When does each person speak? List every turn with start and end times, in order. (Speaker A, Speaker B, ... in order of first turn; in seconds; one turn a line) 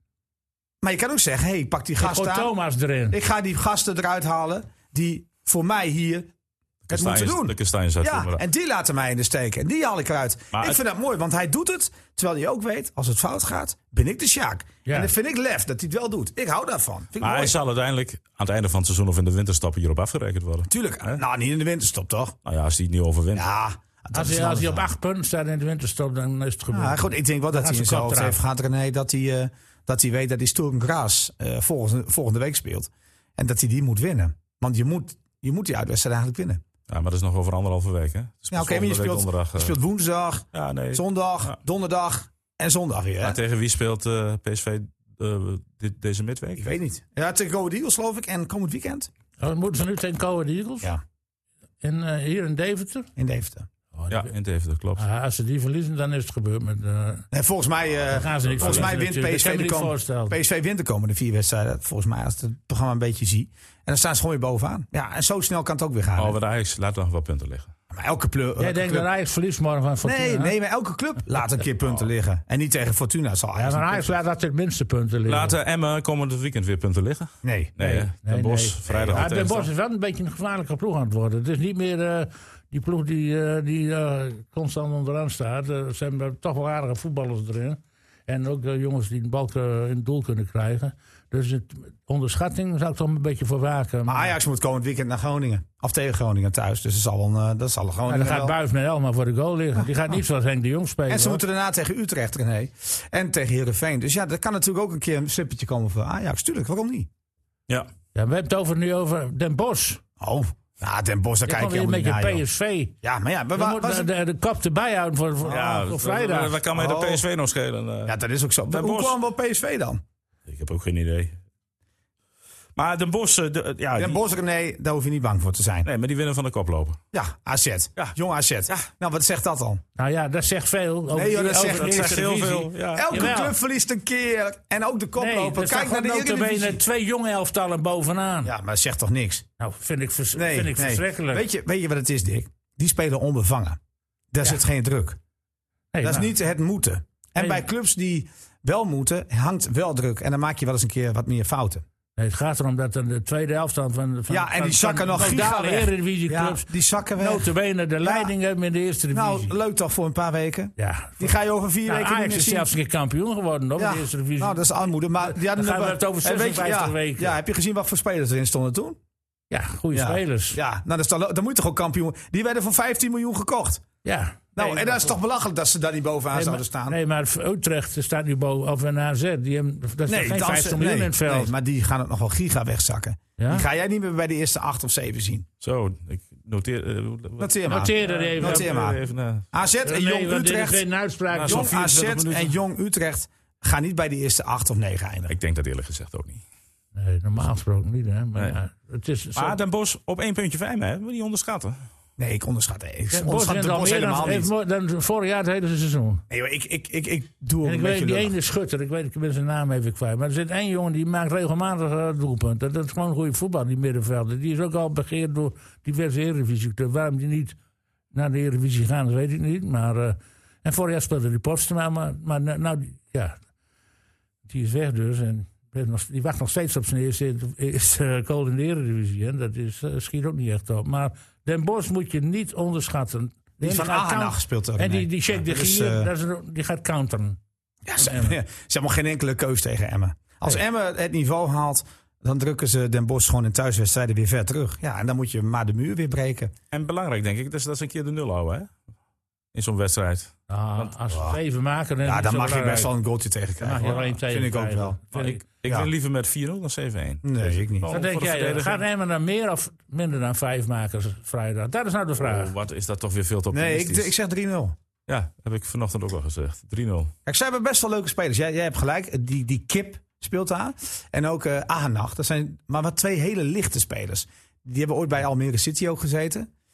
Speaker A: 0.8-2.5
Speaker B: 2.0-3.2
Speaker A: 3.1-6.3
Speaker C: 6.9-8.4
Speaker A: 6.9-17.6
Speaker C: 10.5-10.8
Speaker B: 14.9-15.1
Speaker C: 17.2-21.2
Speaker A: 20.7-22.4
Speaker C: 22.4-23.5
Speaker A: 23.4-24.9
Speaker B: 24.1-28.4
Speaker A: 26.7-36.6
Speaker C: 36.9-39.8
Speaker A: 38.5-43.4
Speaker C: 40.5-41.5
Speaker C: 43.2-46.7
Speaker A: 46.6-49.1
Speaker B: 49.4-50.9
Speaker B: 51.8-53.1
Speaker A: 53.2-53.7
Speaker B: 53.9-54.3
Speaker C: 54.1-55.0
Speaker B: 55.0-57.3
Speaker A: 57.3-66.4
Speaker B: 58.1-60.4
Speaker C: 58.6-58.9
Speaker C: 66.2-67.7
Speaker A: 67.9-69.1
Speaker B: 68.6-70.5
Speaker A: 70.0-74.1
Speaker B: 73.6-75.6
Speaker C: 75.3-79.7
Speaker A: 77.4-77.8
Speaker B: 77.8-94.3
Speaker A: 78.9-79.2
Speaker A: 94.1-98.6
Speaker B: 98.1-101.4
Speaker A: 99.8-100.2
Speaker A: 101.1-107.1
Speaker B: 108.2-110.0
Speaker A: 110.2-112.4
Speaker B: 111.5-112.9
Speaker A: 113.0-114.1
Speaker B: 113.5-116.6
Speaker C: 115.5-118.2
Speaker A: 116.7-117.2
Speaker A: 118.1-120.0
Speaker C: 118.7-119.2
Speaker C: 120.5-121.4
Speaker C: 122.8-124.2
Speaker A: 124.0-125.9
Speaker C: 125.8-127.0
Speaker A: 127.1-129.8
Speaker B: 130.0-133.6
Speaker A: 131.1-132.2
Speaker C: 131.6-133.3
Speaker A: 132.9-136.8
Speaker B: 135.2-138.5
Speaker A: 138.4-139.4
Speaker B: 139.6-141.4
Speaker A: 140.3-143.8
Speaker A: 144.3-145.2
Speaker B: 145.9-146.3
Speaker A: 146.0-151.8
Speaker B: 147.4-147.6
Speaker B: 152.2-159.5
Speaker A: 154.3-157.5
Speaker A: 158.0-158.3
Speaker A: 159.1-162.7
Speaker B: 160.8-161.3
Speaker B: 161.8-164.7
Speaker A: 163.8-169.0
Speaker B: 165.2-167.4
Speaker B: 169.5-170.6
Speaker A: 169.9-173.8
Speaker B: 174.0-175.2
Speaker A: 174.6-177.0
Speaker B: 176.3-181.5
Speaker A: 180.1-185.5
Speaker B: 183.4-183.7
Speaker C: 185.6-189.4
Speaker A: 187.4-189.0
Speaker B: 187.7-188.8
Speaker A: 189.5-190.8
Speaker B: 189.8-192.0
Speaker C: 191.3-192.5
Speaker A: 191.5-195.4
Speaker C: 195.3-196.4
Speaker B: 196.9-199.6
Speaker C: 199.4-201.8
Speaker A: 202.2-204.5
Speaker B: 203.1-206.2
Speaker A: 206.3-208.3
Speaker B: 207.6-217.6
Speaker B: 218.1-223.4
Speaker B: 224.5-237.4
Speaker A: 233.6-236.1
Speaker A: 237.9-246.5
Speaker B: 238.0-238.4
Speaker C: 246.7-248.7
Speaker C: 249.5-250.9
Speaker B: 250.5-252.9
Speaker A: 251.1-251.4
Speaker A: 252.0-255.0
Speaker B: 253.6-255.4
Speaker C: 255.1-258.8
Speaker A: 257.2-257.9
Speaker B: 257.9-262.5
Speaker C: 262.2-264.1
Speaker A: 263.5-264.8
Speaker C: 265.1-267.1
Speaker A: 267.3-276.5